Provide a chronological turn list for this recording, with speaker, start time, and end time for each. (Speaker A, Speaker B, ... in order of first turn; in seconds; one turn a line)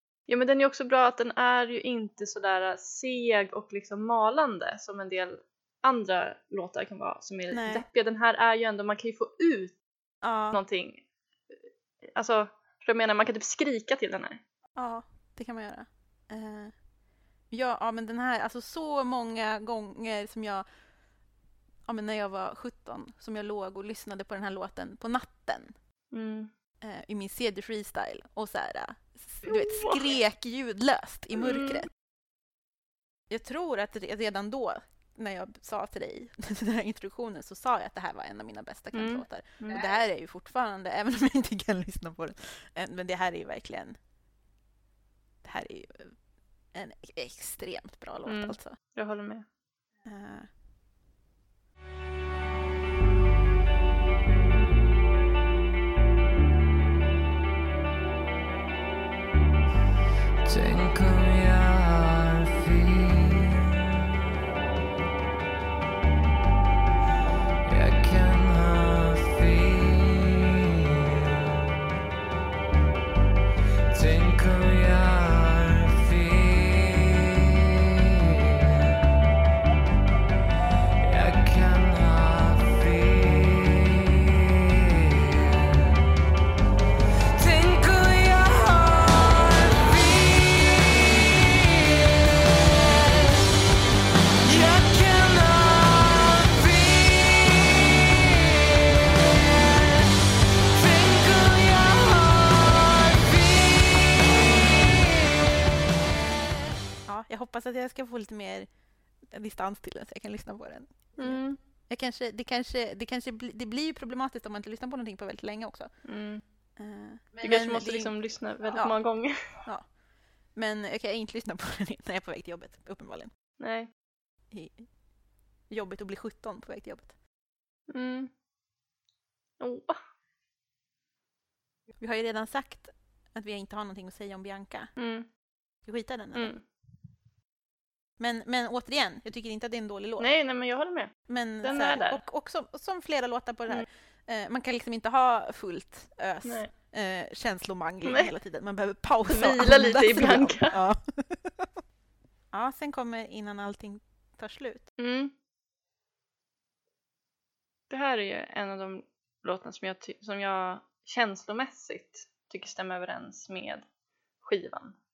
Speaker A: 0.3-9.8
Speaker B: 7.5-7.8
Speaker B: 10.2-10.6
Speaker A: 10.5-11.0
Speaker A: 12.1-14.4
Speaker B: 14.8-16.7
Speaker B: 17.5-20.6
Speaker B: 21.9-25.7
Speaker A: 26.1-26.5
Speaker B: 26.8-31.9
Speaker A: 29.4-30.1
Speaker A: 31.4-31.9
Speaker B: 33.3-44.0
Speaker A: 38.9-39.8
Speaker B: 45.4-46.1
Speaker B: 46.7-48.8
Speaker A: 48.2-49.5
Speaker B: 50.0-50.5
Speaker C: 60.4-64.1
Speaker C: 67.7-71.9
Speaker C: 73.9-79.2
Speaker C: 81.0-86.1
Speaker C: 87.3-93.5
Speaker C: 94.4-105.4
Speaker B: 107.1-108.7
Speaker B: 109.3-115.9
Speaker A: 111.2-111.6
Speaker A: 116.0-116.4
Speaker B: 116.8-118.1
Speaker A: 117.4-119.6
Speaker B: 118.7-119.0
Speaker B: 120.5-123.3
Speaker A: 123.6-123.9
Speaker B: 124.5-124.9
Speaker B: 125.7-127.1
Speaker A: 127.9-128.3
Speaker A: 129.6-130.0
Speaker B: 132.0-134.9
Speaker A: 135.0-135.3
Speaker B: 135.8-136.5
Speaker A: 136.3-136.6
Speaker B: 138.2-140.3
Speaker A: 140.2-142.2
Speaker B: 141.3-151.7
Speaker A: 146.4-146.7
Speaker A: 148.0-148.3
Speaker A: 149.3-150.8
Speaker B: 152.5-154.9
Speaker A: 155.0-155.3
Speaker A: 157.9-163.8
Speaker A: 164.4-164.9